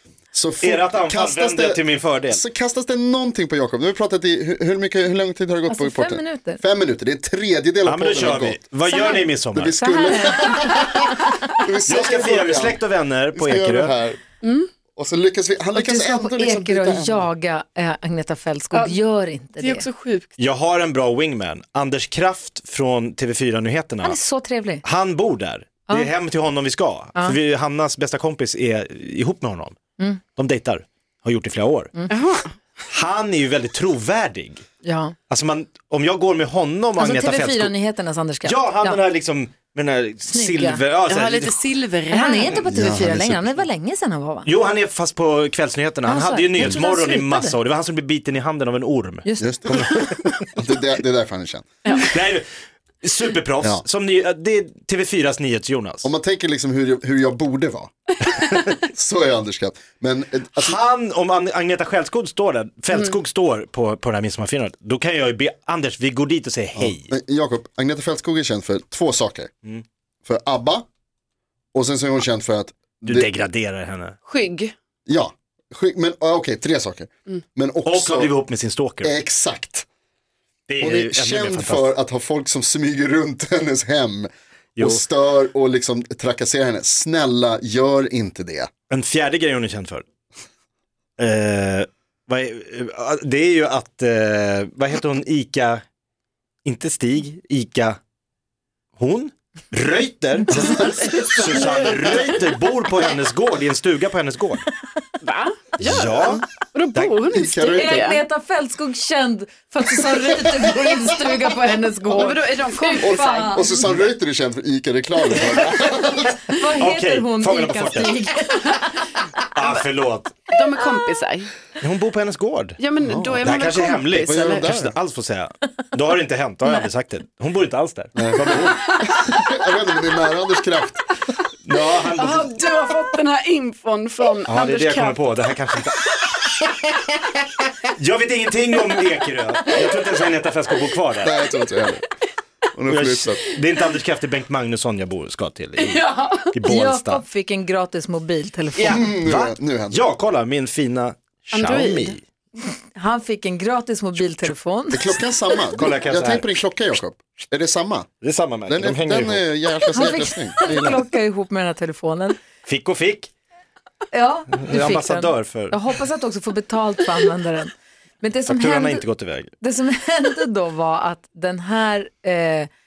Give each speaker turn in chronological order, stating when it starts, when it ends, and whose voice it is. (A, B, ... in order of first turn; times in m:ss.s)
0:00.3-0:08.6 A
0:00.6-0:02.4 B
0:05.7-0:06.6 C
0:07.8-0:09.7 B
0:08.9-0:09.2 C
0:09.5-0:14.2 A
0:09.8-0:11.1 C
0:11.9-0:13.9 B
0:14.4-0:14.7 D
0:15.0-0:17.3 A
0:15.7-0:19.8 C
0:18.7-0:19.0 D
0:19.6-0:20.4 D
0:20.4-0:24.2 B
0:24.0-0:24.8 C
0:24.8-0:29.8 B
0:30.4-0:31.9 B
0:32.1-0:32.5 D
0:32.9-0:34.6 B
0:34.8-0:35.1 C
0:35.3-0:37.7 B
0:37.0-0:39.0 C
0:38.4-0:41.5 B
0:40.3-0:40.8 C
0:41.1-0:42.6 D
0:42.1-0:44.5 C
0:42.7-0:43.6 A
0:44.4-0:50.4 B
0:46.1-0:47.5 C
0:49.2-0:50.1 C
0:49.4-0:51.7 A
0:52.0-0:52.5 B
0:53.0-0:56.1 B
0:56.0-0:57.9 A
0:58.8-1:00.8 A
1:00.6-1:07.1 B
1:06.8-1:09.5 A
1:10.2-1:10.8 A
1:11.7-1:13.3 A
1:13.0-1:14.2 B
1:14.2-1:14.7 D
1:15.1-1:18.3 A
1:17.8-1:19.1 B
1:19.0-1:19.8 A
1:20.7-1:21.9 B
1:20.8-1:28.7 A
1:24.8-1:25.0 B
1:28.9-1:30.0 B
1:31.2-1:35.8 B
1:36.6-1:38.0 B
1:39.0-1:44.6 B
1:40.8-1:42.4 D
1:45.2-1:48.2 D
1:45.8-1:47.2 B
1:47.3-1:53.7 C
1:52.1-1:53.6 D
1:53.0-1:56.3 A
1:56.0-1:58.9 C
1:56.8-1:58.3 B
1:59.5-2:00.4 B
1:59.6-1:59.8 D
2:00.5-2:01.5 D
2:01.8-2:02.8 B
2:02.8-2:04.7 D
2:03.0-2:03.4 A
2:03.4-2:09.0 B
2:04.3-2:05.0 A
2:08.2-2:11.0 A
2:11.6-2:12.5 B
2:12.2-2:15.4 D
2:14.5-2:16.5 B
2:17.9-2:21.4 B
2:21.2-2:22.0 A
2:22.7-2:23.4 A
2:22.9-2:27.2 B
2:25.8-2:26.5 D
2:26.6-2:29.1 C
2:28.8-2:32.2 B
2:28.8-2:30.0 A
2:31.5-2:32.2 D
2:32.9-2:35.1 C
2:34.9-2:38.1 A
2:35.8-2:36.5 B
2:38.2-2:39.4 B
2:38.7-2:41.0 A
2:39.9-2:42.4 C
2:40.6-2:40.9 B
2:42.6-2:43.3 B
2:44.1-2:49.0 C
2:44.6-2:45.8 B
2:48.5-2:49.5 B
2:49.6-2:52.7 C